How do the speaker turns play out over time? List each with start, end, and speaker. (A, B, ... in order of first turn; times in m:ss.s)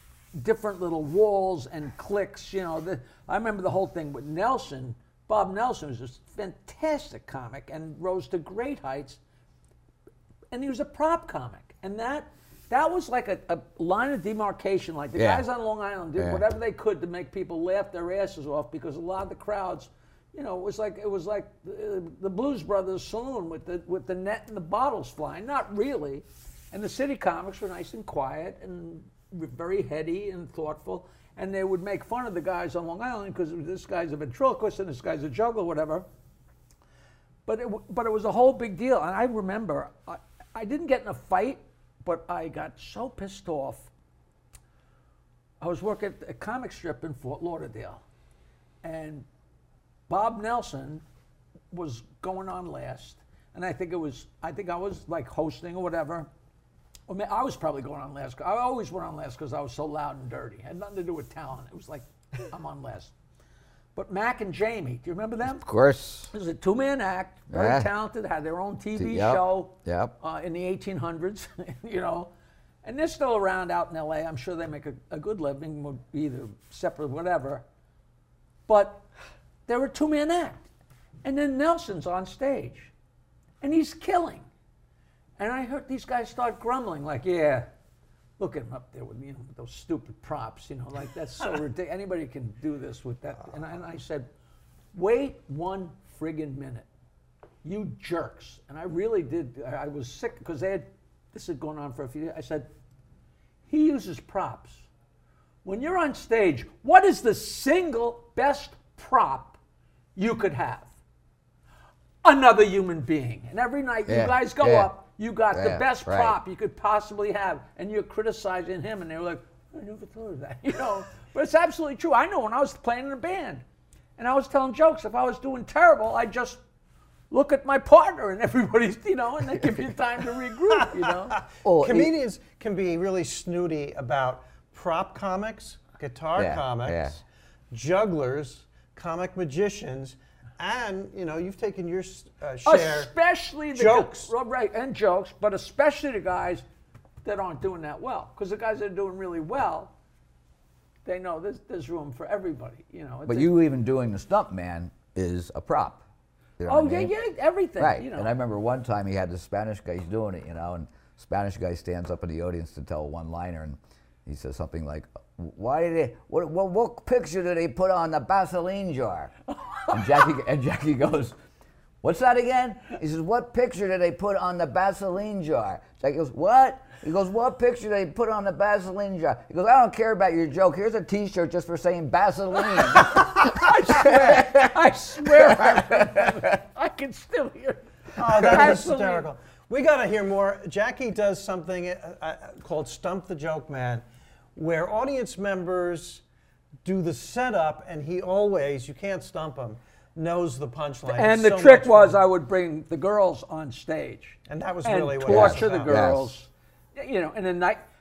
0:00.3-0:09.2 A
0:10.5-0:36.0 A
0:15.2-0:15.4 B
0:16.2-0:16.4 B
0:37.4-0:43.9 A
0:45.6-0:48.0 A
0:48.8-0:49.2 A
0:50.1-0:51.0 A
0:51.7-0:56.3 A
0:57.1-1:03.1 A
1:03.9-1:05.6 A
1:05.4-1:06.3 B
1:06.3-1:12.3 A
1:07.5-1:07.9 B
1:09.0-1:10.1 B
1:12.8-1:17.6 A
1:18.7-1:19.0 A
1:19.7-1:20.6 A
1:21.2-1:22.9 A
1:23.6-1:24.5 A
1:25.4-1:27.7 A
1:28.4-1:34.3 A
1:34.9-1:36.9 A
1:37.6-1:42.7 A
1:43.7-1:44.9 A
1:45.6-1:49.6 A
1:50.2-1:50.9 A
1:52.2-2:03.6 A
1:54.1-1:54.9 B
1:55.5-1:56.4 B
2:04.2-2:06.6 A
2:07.3-2:11.4 A
2:11.6-2:12.1 B
2:11.6-2:23.1 C
2:16.3-2:17.1 B
2:22.6-2:26.6 A
2:23.7-2:24.3 C
2:27.2-2:29.9 A
2:31.0-2:33.6 A
2:33.3-2:36.0 B
2:36.6-2:37.2 B
2:36.6-2:38.3 A
2:37.8-2:49.3 B
2:49.6-2:50.3 A
2:49.9-2:51.3 B
2:52.0-3:06.3 B
3:02.8-3:09.3 A
3:08.2-3:14.0 C
3:14.6-3:16.2 C
3:16.8-3:22.2 C
3:21.1-3:27.8 A
3:24.5-3:26.0 C
3:25.2-3:26.4 B